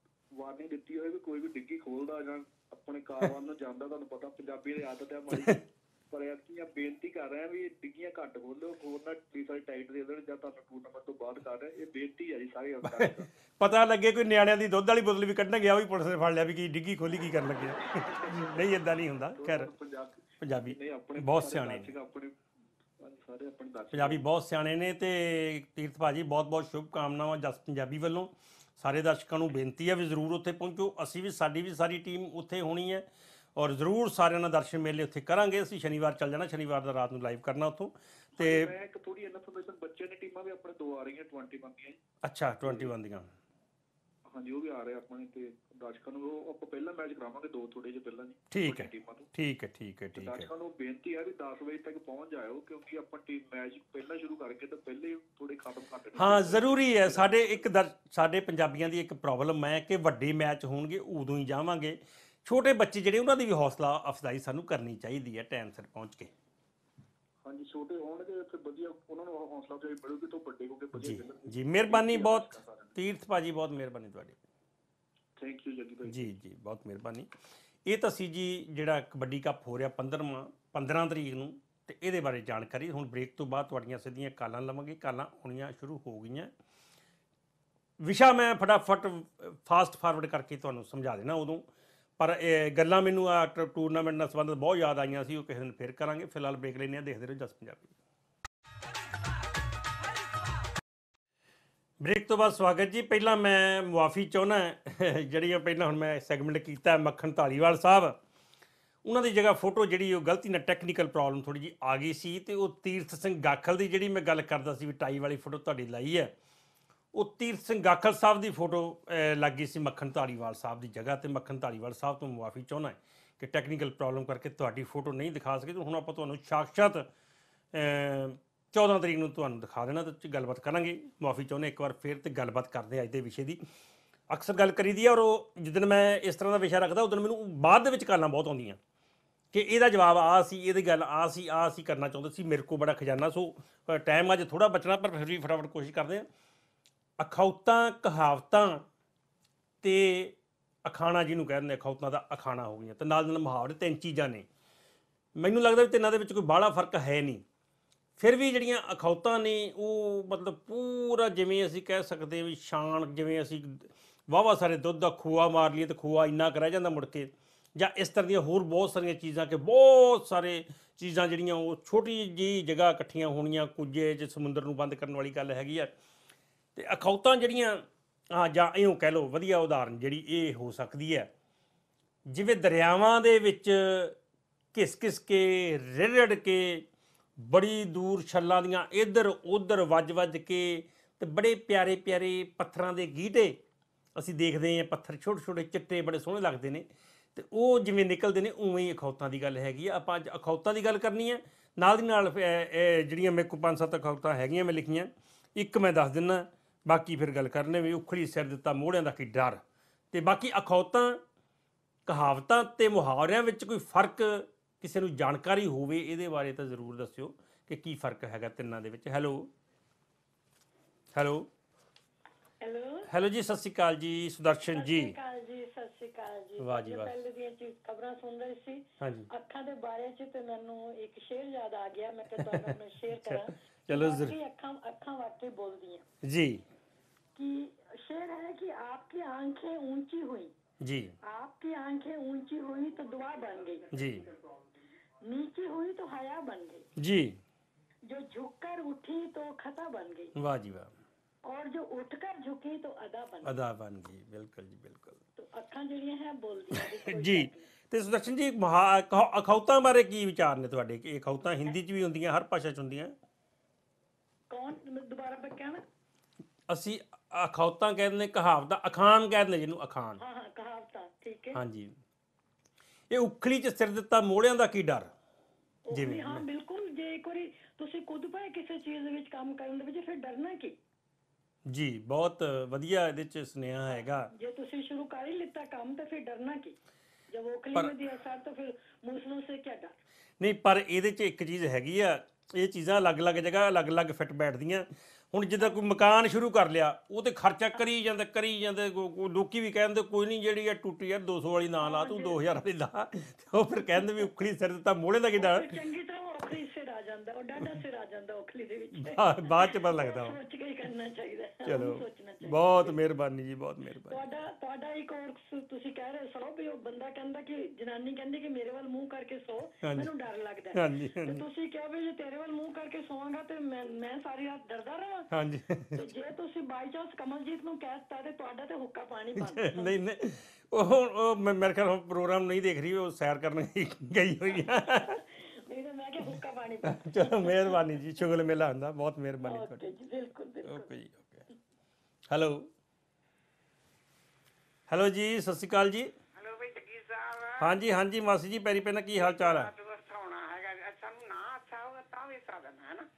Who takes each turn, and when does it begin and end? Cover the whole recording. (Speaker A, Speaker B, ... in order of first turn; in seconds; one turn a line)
Speaker A: 0.3-13.3
Speaker B: 12.8-19.7
Speaker A: 18.0-18.6
Speaker A: 19.4-22.4
Speaker B: 20.4-21.9
Speaker A: 23.0-24.2
Speaker B: 23.9-38.7
Speaker A: 38.4-42.0
Speaker B: 42.2-43.3
Speaker A: 42.6-42.9
Speaker A: 44.3-49.3
Speaker B: 48.5-50.5
Speaker A: 50.2-57.7
Speaker B: 56.2-66.3
Speaker A: 67.5-73.0
Speaker B: 71.0-74.4
Speaker A: 75.4-76.3
Speaker B: 76.0-77.3
Speaker B: 77.8-86.5
Speaker B: 88.0-91.7
Speaker B: 92.2-97.9
Speaker B: 102.0-108.2
Speaker B: 109.0-116.3
Speaker B: 117.1-127.1
Speaker B: 127.7-133.6
Speaker B: 134.3-138.8
Speaker B: 139.5-146.3
Speaker B: 147.2-148.9
Speaker B: 149.8-154.5
Speaker B: 155.4-157.4
Speaker B: 158.2-175.9
Speaker B: 176.8-181.3
Speaker B: 182.3-184.2
Speaker B: 184.7-186.9
Speaker B: 187.4-193.6
Speaker B: 194.2-211.2
Speaker B: 212.1-219.5
Speaker B: 221.2-221.5
Speaker C: 222.6-223.1
Speaker B: 223.1-225.2
Speaker C: 224.7-236.1
Speaker B: 226.6-227.2
Speaker B: 229.0-229.3
Speaker B: 232.4-234.4
Speaker B: 236.2-236.7
Speaker C: 237.4-240.5
Speaker B: 240.8-241.2
Speaker C: 241.2-243.9
Speaker B: 243.9-244.3
Speaker C: 245.2-246.9
Speaker B: 247.0-247.4
Speaker C: 248.1-250.3
Speaker B: 250.4-250.9
Speaker C: 251.4-253.6
Speaker B: 253.4-255.2
Speaker C: 255.4-257.7
Speaker B: 256.8-263.1
Speaker C: 264.5-265.8
Speaker B: 266.7-270.2
Speaker C: 270.2-271.6
Speaker B: 271.5-271.9
Speaker B: 273.1-275.1
Speaker C: 275.9-280.8
Speaker B: 275.9-276.4
Speaker B: 281.7-284.3
Speaker C: 284.3-286.8
Speaker C: 287.3-290.0
Speaker B: 290.4-305.8
Speaker C: 301.8-302.4
Speaker C: 305.4-313.0
Speaker B: 308.9-310.4
Speaker B: 311.6-314.2
Speaker C: 314.1-325.3
Speaker B: 319.8-320.1
Speaker B: 320.7-321.4
Speaker B: 325.3-326.1
Speaker C: 325.9-330.0
Speaker B: 329.4-335.2
Speaker C: 334.6-337.9
Speaker B: 336.3-339.8
Speaker C: 339.4-340.9
Speaker B: 340.6-341.5
Speaker B: 342.3-342.7
Speaker B: 344.9-346.1
Speaker D: 346.4-347.8
Speaker B: 347.6-349.7
Speaker D: 349.2-353.1